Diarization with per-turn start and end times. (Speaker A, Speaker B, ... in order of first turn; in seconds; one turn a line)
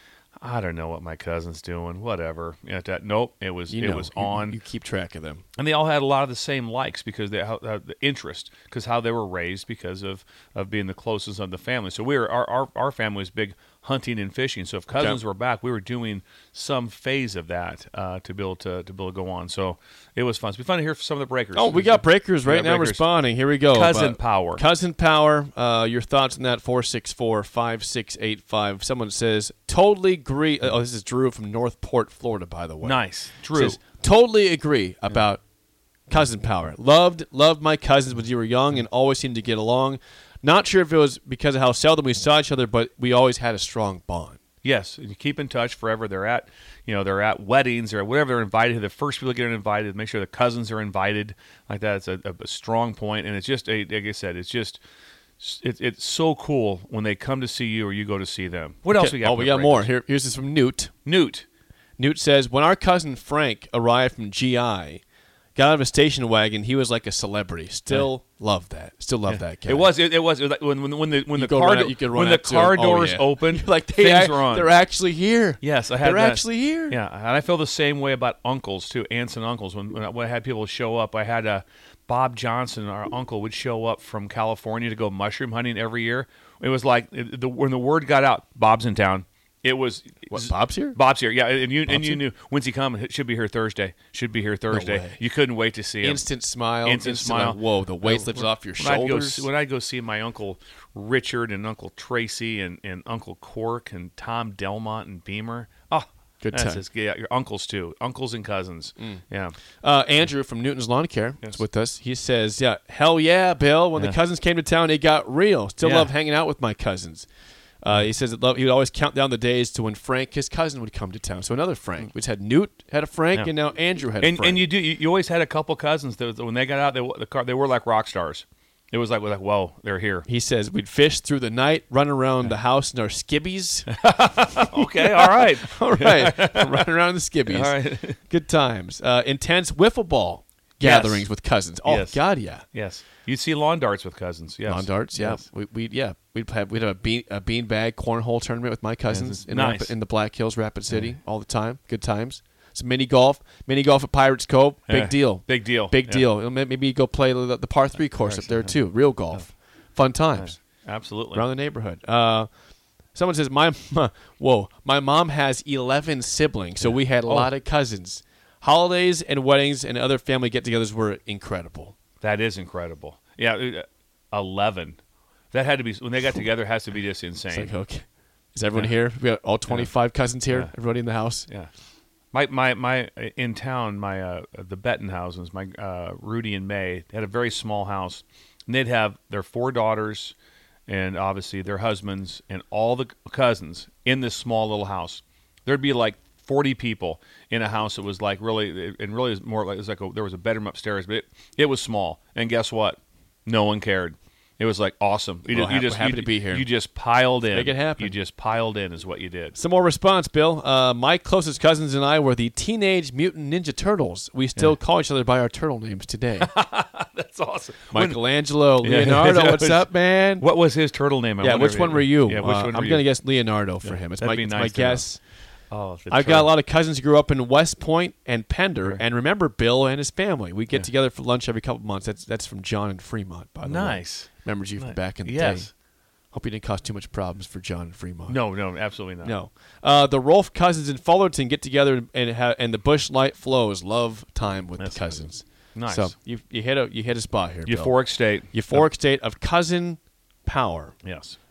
Speaker A: 0.4-4.6
Speaker B: 3.7-5.4
Speaker A: 5.6-23.0
Speaker B: 14.9-15.2
Speaker B: 21.5-33.0
Speaker A: 23.7-24.6
Speaker A: 32.8-33.8
Speaker B: 33.5-35.4
Speaker B: 36.1-44.4
Speaker A: 44.6-54.8
Speaker A: 55.4-59.9
Speaker B: 58.9-60.9
Speaker A: 61.1-61.5
Speaker B: 62.0-65.0
Speaker B: 65.6-69.9
Speaker A: 69.3-74.7
Speaker B: 71.3-77.0
Speaker A: 75.6-96.3
Speaker B: 90.3-91.0
Speaker B: 91.9-92.2
Speaker B: 94.7-95.2
Speaker B: 96.0-99.5
Speaker A: 96.8-109.6
Speaker B: 106.4-106.8
Speaker B: 109.8-117.3
Speaker A: 115.8-116.1
Speaker B: 117.8-124.6
Speaker A: 124.2-130.3
Speaker B: 130.3-133.9
Speaker A: 133.9-136.9
Speaker B: 134.6-137.8
Speaker A: 137.5-138.2
Speaker B: 138.3-142.6
Speaker A: 140.8-141.3
Speaker A: 141.8-145.4
Speaker B: 144.7-160.6
Speaker A: 149.1-149.9
Speaker A: 150.9-151.2
Speaker A: 154.9-156.3
Speaker A: 158.0-158.8
Speaker A: 160.3-161.5
Speaker B: 161.3-162.5
Speaker B: 163.1-171.9
Speaker A: 166.8-167.5
Speaker A: 172.2-175.0
Speaker A: 175.5-177.7
Speaker B: 177.5-181.5
Speaker A: 179.7-179.9
Speaker A: 180.5-180.7
Speaker A: 182.3-190.3
Speaker A: 190.9-209.6
Speaker B: 205.5-206.7
Speaker B: 207.5-208.1
Speaker B: 209.6-216.5
Speaker A: 216.4-218.2
Speaker B: 217.9-220.4
Speaker A: 218.8-219.9
Speaker A: 220.4-223.1
Speaker B: 221.4-225.2
Speaker A: 223.8-225.1
Speaker A: 225.7-226.5
Speaker B: 226.1-235.7
Speaker A: 233.7-235.7
Speaker B: 236.3-238.4
Speaker A: 238.3-239.4
Speaker B: 239.2-248.0
Speaker A: 244.8-246.1
Speaker A: 247.7-248.9
Speaker B: 248.5-250.9
Speaker A: 251.0-251.4